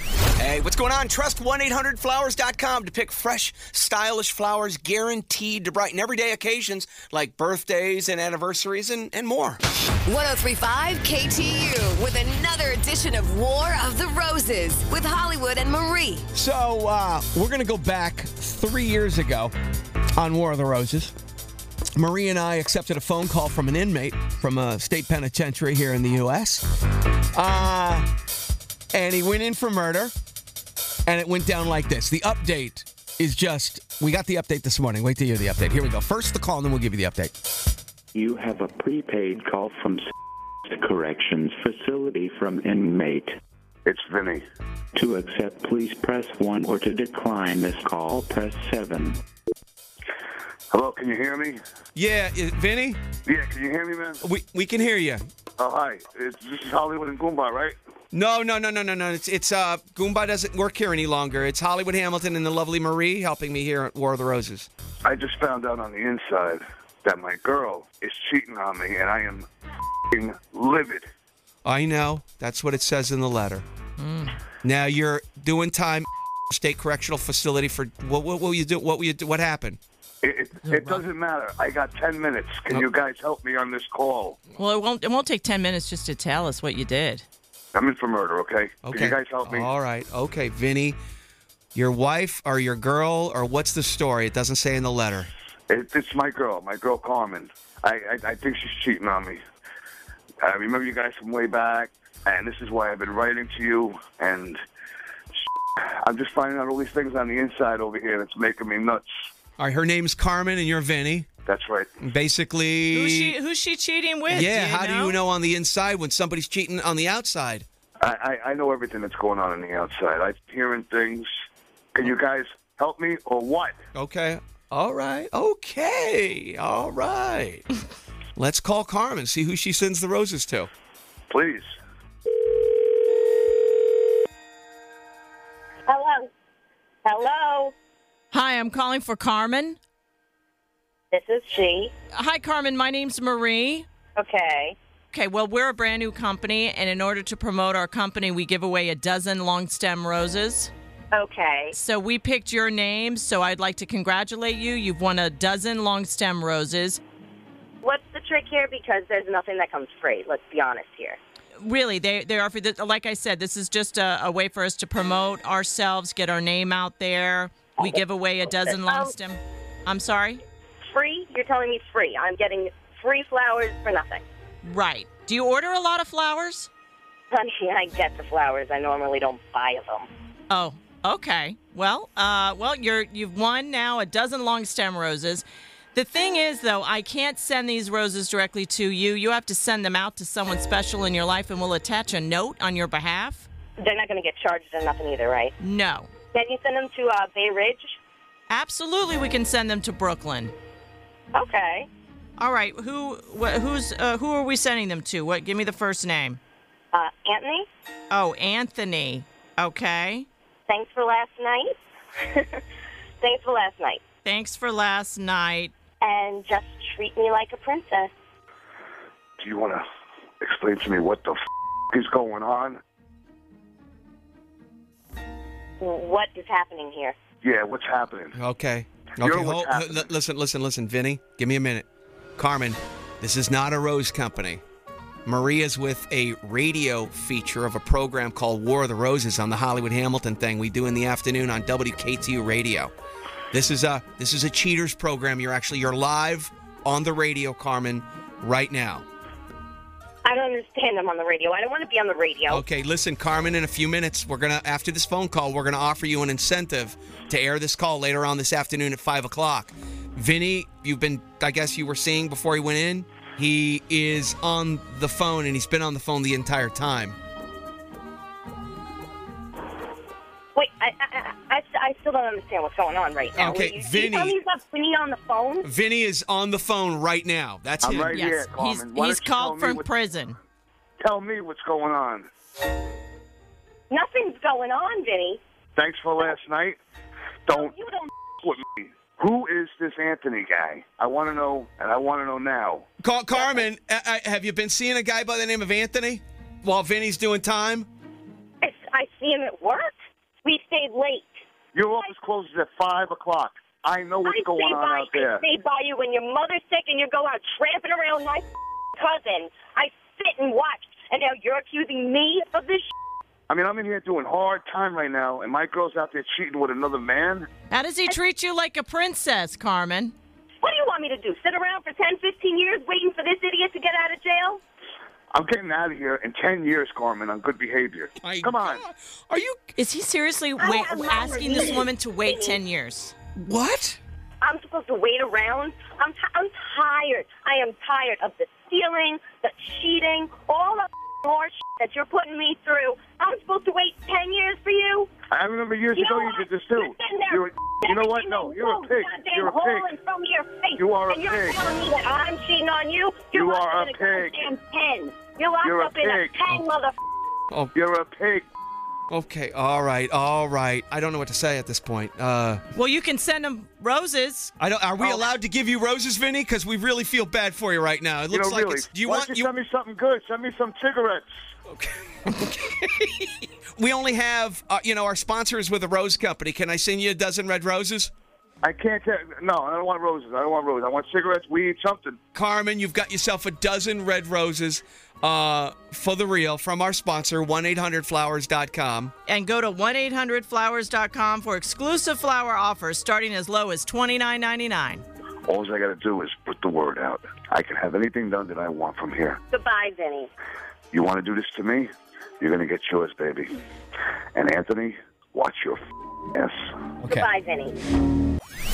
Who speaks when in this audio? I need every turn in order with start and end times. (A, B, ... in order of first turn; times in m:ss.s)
0:00.4-0:09.6 A
0:10.0-0:16.2 B
0:16.3-0:19.5 A
0:20.1-0:21.1 A
0:22.0-0:26.6 A
0:27.3-0:28.1 A
0:28.9-0:30.1 A
0:31.0-0:37.3 A
0:38.1-0:40.0 C
0:40.7-0:43.4 C
0:43.8-0:44.4 D
0:44.9-0:49.2 C
0:50.7-0:51.6 D
0:51.9-0:53.0 A
0:53.2-0:54.2 D
0:54.2-0:55.2 A
0:55.6-0:57.7 D
0:58.1-1:04.7 A
1:05.0-1:09.4 D
1:10.1-1:11.1 D
1:11.6-1:13.6 A
1:14.0-1:14.4 E
1:14.6-1:19.8 A
1:20.2-1:24.4 D
1:20.7-1:21.0 E
1:24.6-1:27.2 E
1:27.7-1:29.7 D
1:28.8-1:31.0 A
1:31.7-1:35.3 A
1:35.7-1:39.4 D
1:40.4-1:44.6 D
1:46.0-1:49.0 D
1:49.6-1:51.3 A
1:51.4-1:52.0 D
1:52.0-1:53.3 A
1:52.9-1:55.2 E
1:54.3-1:57.6 A
1:58.0-2:01.3 D
2:01.9-2:03.8 D
2:03.9-2:07.6 A
2:08.4-2:10.7 A
2:11.3-2:11.7 D
2:15.9-2:16.3 F
2:17.0-2:17.7 F
2:18.3-2:19.8 E
2:21.1-2:21.9 F
2:22.1-2:23.8 E
2:24.2-2:24.8 F
2:25.1-2:30.7 E
2:31.1-2:31.7 F
2:31.7-2:37.0 E
2:37.8-2:41.2 F
2:41.6-2:50.4 E
2:48.5-2:49.1 F
2:50.9-2:54.2 F
2:54.6-2:56.7 E
2:57.3-3:00.0 F
3:00.5-3:13.5 E
3:13.8-3:15.5 F
3:15.6-3:16.1 E
3:16.3-3:18.0 F
3:18.5-3:20.5 E
3:21.3-3:21.9 F
3:22.4-3:26.4 E
3:26.9-3:27.7 F
3:28.1-3:30.2 E
3:30.7-3:32.6 F
3:33.2-3:34.0 F
3:34.2-3:35.7 E
3:36.0-3:38.1 F
3:39.4-3:39.8 D
3:40.4-3:41.4 D
3:41.9-3:42.8 D
3:45.8-3:47.1 F
3:47.4-3:48.3 D
3:48.3-3:51.8 A
3:49.2-3:50.0 D
3:52.4-3:54.6 A
3:55.2-4:02.9 A
4:03.5-4:09.0 A
4:10.2-4:12.6 F
4:12.5-4:27.2 A
4:30.6-4:35.6 F
4:33.3-4:34.4 A
4:35.6-4:38.2 A
4:37.8-4:39.8 D
4:38.1-4:40.4 E
4:41.0-4:42.3 D
4:43.9-4:45.4 F
4:45.8-4:46.8 D
4:47.5-4:47.7 D
4:47.5-4:48.1 F
4:48.4-4:52.8 D
4:53.0-4:57.9 A
4:58.6-4:59.9 F
5:00.4-5:01.4 F
5:01.7-5:05.4 D
5:04.2-5:12.9 F
5:13.5-5:17.5 D
5:17.7-5:20.1 E
5:20.6-5:24.6 F
5:25.3-5:28.8 D
5:28.2-5:29.7 A
5:29.8-5:33.1 E
5:30.6-5:32.6 F
5:33.4-5:34.0 A
5:34.4-5:45.2 F
5:45.3-5:49.9 D
5:45.9-5:56.9 F
5:50.8-5:51.6 D
5:53.3-5:54.4 D
5:55.6-5:56.4 D
5:57.7-5:58.4 D
5:59.1-6:02.6 A
6:02.7-6:04.5 E
6:04.6-6:09.5 A
6:05.0-6:05.3 D
6:08.3-6:11.3 D
6:11.7-6:18.1 A
6:18.6-6:22.2 D
6:22.3-6:29.1 A
6:29.2-6:35.0 E
6:35.4-6:39.4 D
6:39.5-6:40.3 F
6:40.9-6:41.9 D
6:42.4-6:43.5 D
6:44.3-6:45.8 D
6:46.3-6:46.7 D
6:47.1-6:47.8 F